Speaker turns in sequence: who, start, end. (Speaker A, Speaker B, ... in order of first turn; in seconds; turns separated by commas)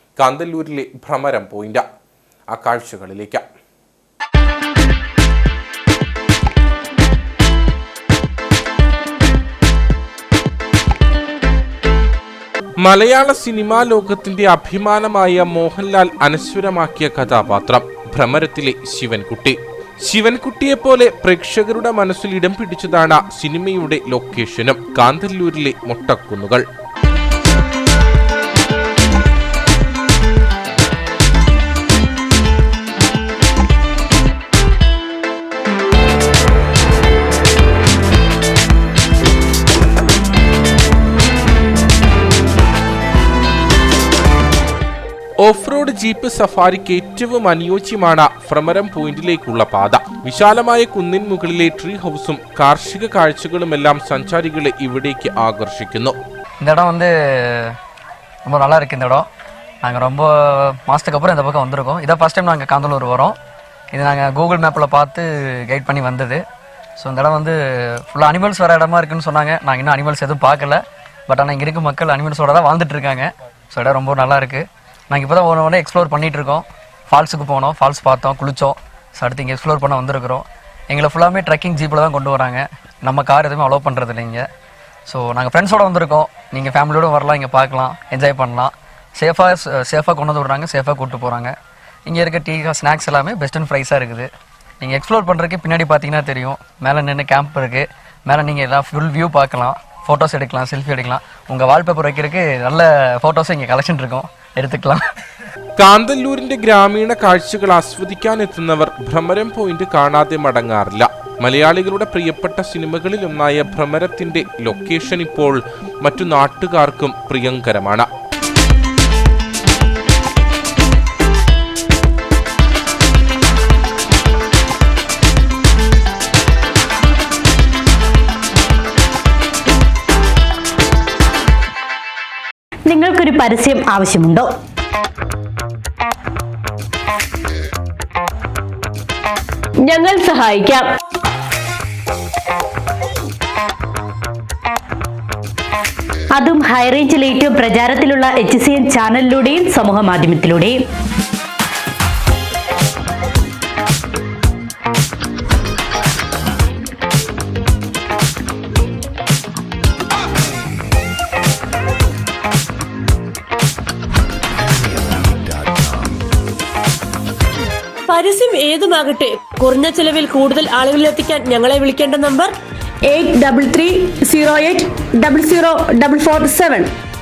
Speaker A: 0.2-1.8, Speaker A: 2.5-3.4, Speaker A: 12.8-26.6, Speaker A: 45.4-56.1, Speaker B: 56.6-57.8, Speaker B: 58.5-59.2, Speaker B: 59.8-63.4, Speaker B: 63.9-66.4, Speaker B: 67.0-84.4, Speaker B: 85.1-91.5, Speaker B: 92.1-94.3, Speaker B: 94.8-105.0, Speaker A: 105.8-118.1, Speaker C: 132.9-134.5, Speaker D: 139.8-140.9, Speaker C: 146.3-150.8, Speaker D: 168.1-172.5, Speaker E: 173.1-176.9